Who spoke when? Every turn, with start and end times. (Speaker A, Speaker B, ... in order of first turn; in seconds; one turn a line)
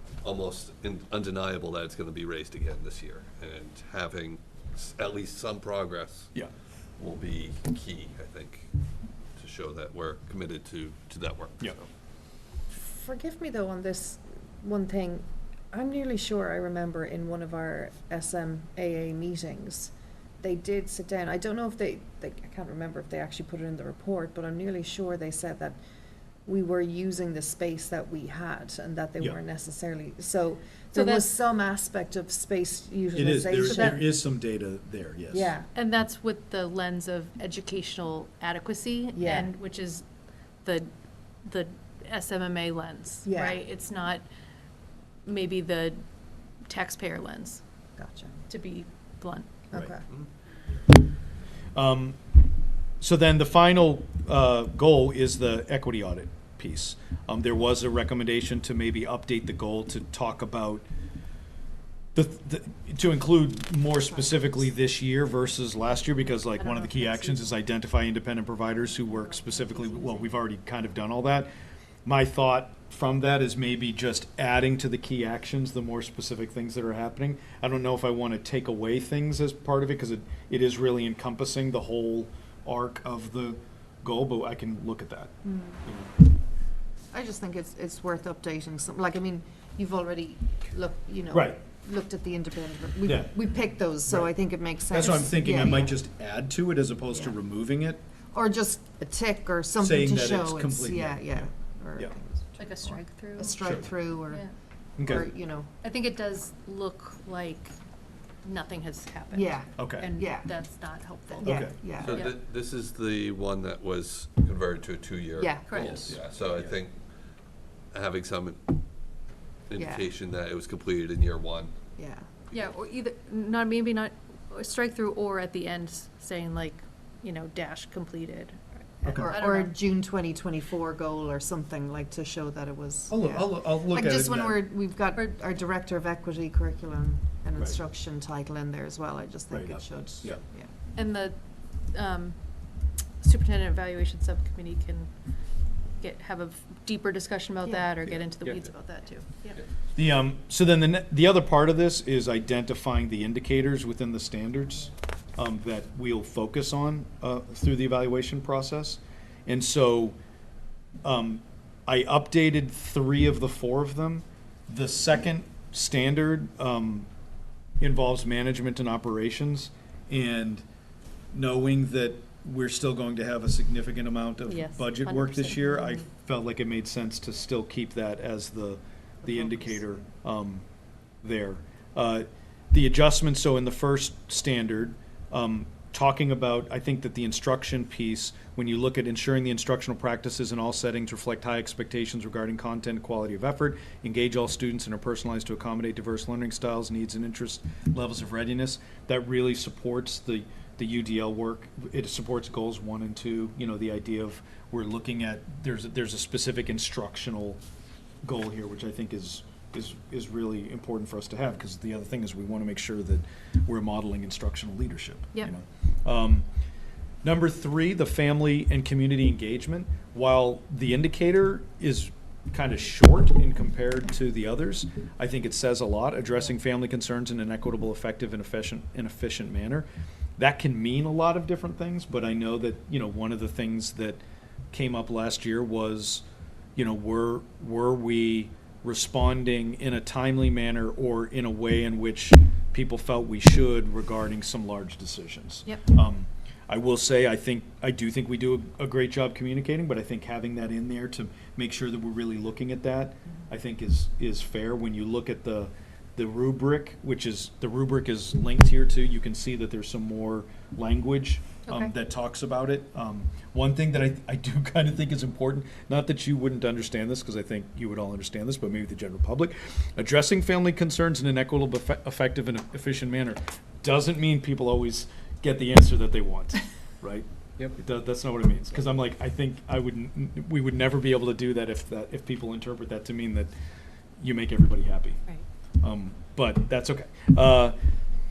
Speaker A: 0.2-6.3
Speaker A: 7.0-8.7
Speaker A: 9.3-11.9
Speaker B: 12.7-25.8
Speaker B: 26.4-34.1
Speaker C: 30.9-31.3
Speaker D: 33.1-35.5
Speaker C: 33.6-34.0
Speaker B: 35.3-35.7
Speaker C: 35.7-40.0
Speaker B: 39.1-39.5
Speaker C: 40.6-40.9
Speaker C: 41.4-44.2
Speaker B: 43.2-43.6
Speaker C: 45.2-46.0
Speaker C: 46.6-47.6
Speaker B: 48.0-48.3
Speaker C: 48.5-49.5
Speaker B: 49.7-50.0
Speaker D: 51.7-52.2
Speaker D: 53.0-60.8
Speaker D: 62.1-71.5
Speaker C: 66.5-67.4
Speaker C: 69.0-70.3
Speaker D: 72.0-85.3
Speaker B: 85.5-85.8
Speaker D: 85.8-86.2
Speaker B: 87.1-96.0
Speaker D: 91.3-91.6
Speaker D: 93.0-93.4
Speaker D: 94.1-94.3
Speaker D: 94.9-98.0
Speaker B: 98.3-104.5
Speaker D: 99.8-102.1
Speaker C: 102.6-103.6
Speaker D: 103.6-103.9
Speaker C: 104.3-104.5
Speaker D: 105.0-105.3
Speaker B: 105.0-105.7
Speaker C: 105.8-107.7
Speaker C: 108.4-112.3
Speaker B: 109.3-110.5
Speaker D: 109.8-110.1
Speaker B: 111.4-112.3
Speaker D: 111.4-111.7
Speaker A: 112.0-117.0
Speaker B: 115.4-116.2
Speaker C: 115.7-116.0
Speaker A: 117.9-118.8
Speaker A: 119.7-121.7
Speaker B: 119.8-120.1
Speaker B: 122.0-122.3
Speaker C: 122.5-129.8
Speaker D: 129.0-129.3
Speaker B: 129.1-140.7
Speaker D: 133.1-134.7
Speaker D: 139.5-140.4
Speaker C: 140.9-145.1
Speaker C: 145.9-149.6
Speaker B: 147.6-147.9
Speaker D: 149.9-160.2
Speaker D: 161.0-167.1
Speaker D: 167.8-170.6
Speaker D: 171.3-180.6
Speaker C: 174.4-176.0
Speaker B: 179.2-179.7
Speaker D: 181.2-207.6
Speaker D: 208.2-216.4
Speaker D: 217.2-234.2
Speaker D: 234.7-236.2
Speaker D: 236.8-283.5
Speaker C: 261.6-261.9
Speaker D: 284.2-285.2
Speaker D: 285.8-287.8